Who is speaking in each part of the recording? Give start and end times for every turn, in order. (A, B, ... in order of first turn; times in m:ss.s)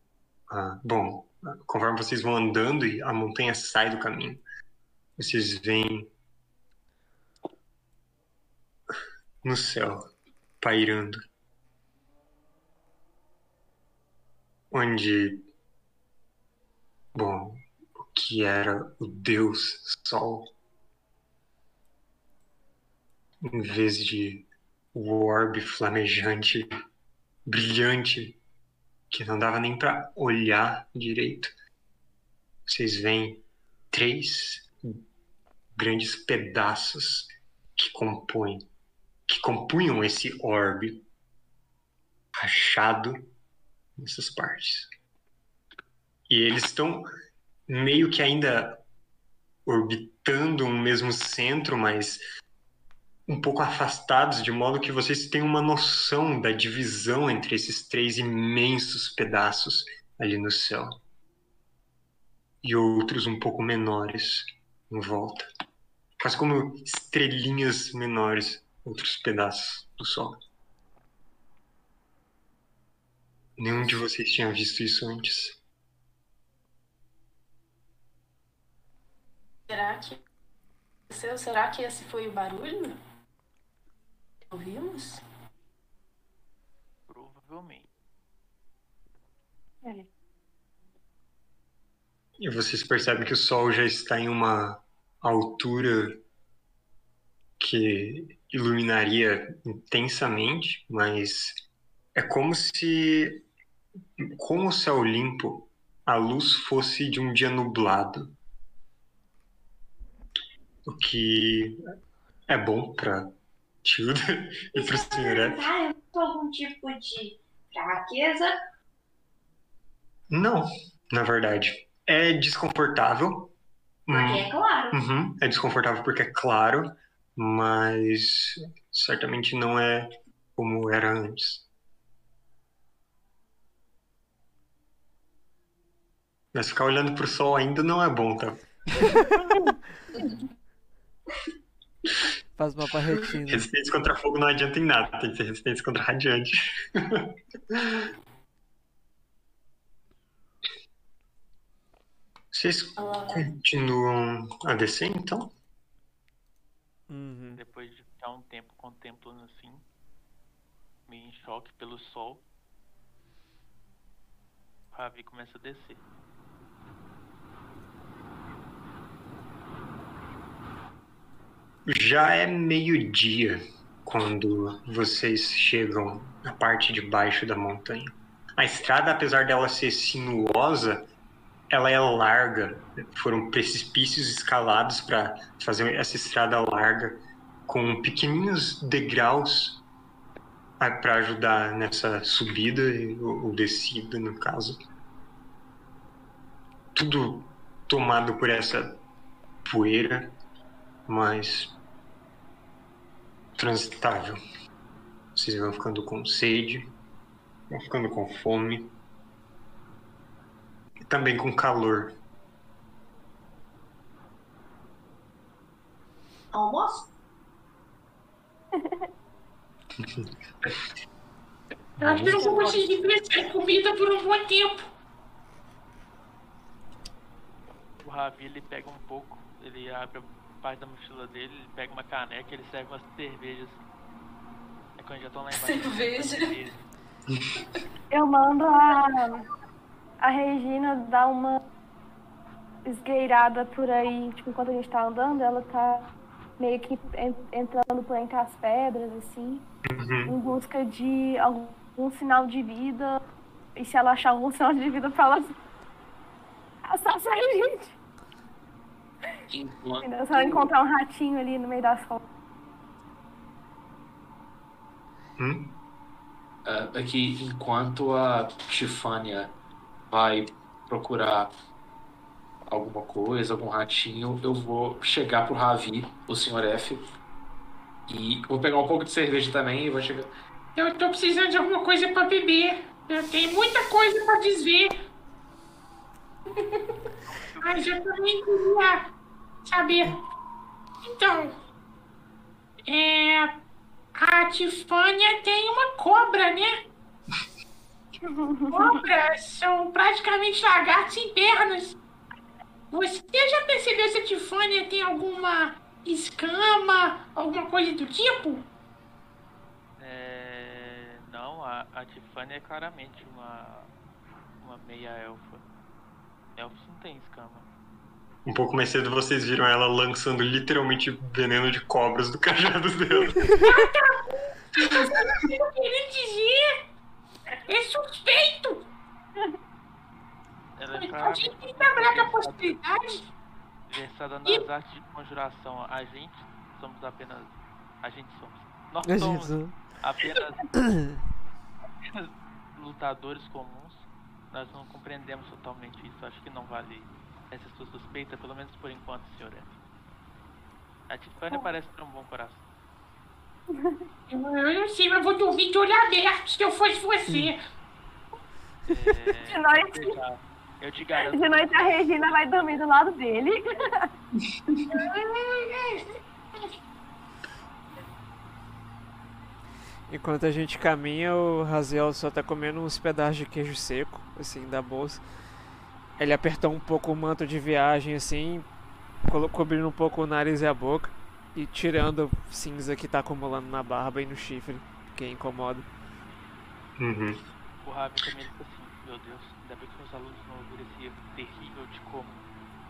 0:00.5-0:04.4 A
0:05.2-0:06.1 A
0:09.4-0:11.2 A
0:14.7-0:15.4 A
0:17.1-0:20.5 A
0:23.4-0:26.7 A
0:27.5-0:28.4 A
0:29.1-0:31.6 A
0:32.7-0:35.0 A
0:35.8-0:38.7 A
0:39.3-0:41.0 A
0:42.4-0:43.3 A
0:44.0-0:44.9 A
0:46.3-0:47.1 A
0:47.7-0:48.8 A
0:49.7-0:52.2 A
0:53.3-1:01.0 A
1:02.6-1:05.5 A
1:06.2-1:10.4 A
1:13.6-1:15.6 A
1:19.7-1:20.2 B
1:21.1-1:23.0 B
1:24.5-1:25.2 B
1:27.1-1:27.9 C
1:29.8-1:30.1 D
1:32.4-1:36.2 A
1:37.6-1:41.6 A
1:42.2-1:43.4 A
1:44.2-1:48.4 A
1:50.9-1:51.8 A
1:52.5-1:55.7 A
1:54.8-1:58.6 E
2:00.3-2:03.5 A
2:04.1-2:11.7 A
2:04.1-2:05.0 E
2:16.5-2:18.7 A
2:22.6-2:23.7 F
2:23.5-2:28.1 A
2:32.5-2:35.5 A
2:33.0-2:33.4 B
2:37.1-2:37.6 F
2:37.6-2:39.8 C
2:41.1-2:42.4 C
2:44.9-2:46.0 C
2:51.9-3:01.1 A
3:01.7-3:09.8 A
3:10.8-3:14.8 A
3:17.0-3:19.0 A
3:19.6-3:20.4 A
3:21.1-3:21.8 A
3:23.6-3:24.4 A
3:25.4-3:26.9 A
3:27.7-3:28.9 A
3:31.1-3:32.2 A
3:36.5-3:37.1 E
3:38.8-3:39.1 D
3:40.0-3:40.3 A
3:42.0-3:42.5 A
3:42.0-3:44.9 G
3:42.3-3:42.8 D
3:48.0-3:53.8 C
3:55.0-3:56.8 C
3:55.6-3:56.5 B
3:58.1-3:59.5 D
4:00.2-4:01.6 D
4:02.8-4:09.6 D
4:09.9-4:10.4 A
4:10.3-4:13.2 D
4:13.8-4:15.6 D
4:16.8-4:18.0 D
4:19.5-4:20.7 H
4:20.0-4:22.3 D
4:25.4-4:25.8 A
4:26.7-4:29.5 H
4:30.1-4:31.5 H
4:32.7-4:37.1 H
4:38.1-4:40.3 H
4:40.8-4:44.9 G
4:46.6-4:46.8 B
4:47.3-4:47.9 C
4:47.6-4:49.1 G
4:49.6-4:50.2 G
4:51.0-4:51.6 G
4:52.9-4:53.6 G
4:54.1-4:56.8 G
4:58.2-4:59.0 D
4:58.7-5:02.0 G
5:02.9-5:08.6 G
5:10.0-5:13.9 C
5:14.6-5:15.6 C
5:16.6-5:17.7 C
5:18.5-5:23.6 A
5:23.6-5:26.8 G
5:27.7-5:28.9 G
5:30.8-5:32.8 C
5:31.0-5:33.3 G
5:33.9-5:40.8 C
5:39.0-5:39.9 F
5:40.8-5:41.2 F
5:42.0-5:49.8 C
5:51.1-5:52.6 C
5:53.7-5:54.0 D
5:54.3-5:57.6 G
5:58.9-6:02.7 C
5:59.5-6:00.2 D
6:01.3-6:04.1 D
6:04.9-6:06.0 G
6:10.1-6:15.2 F
6:16.2-6:18.6 F
6:19.3-6:25.9 F
6:27.0-6:27.4 A
6:27.8-6:32.4 C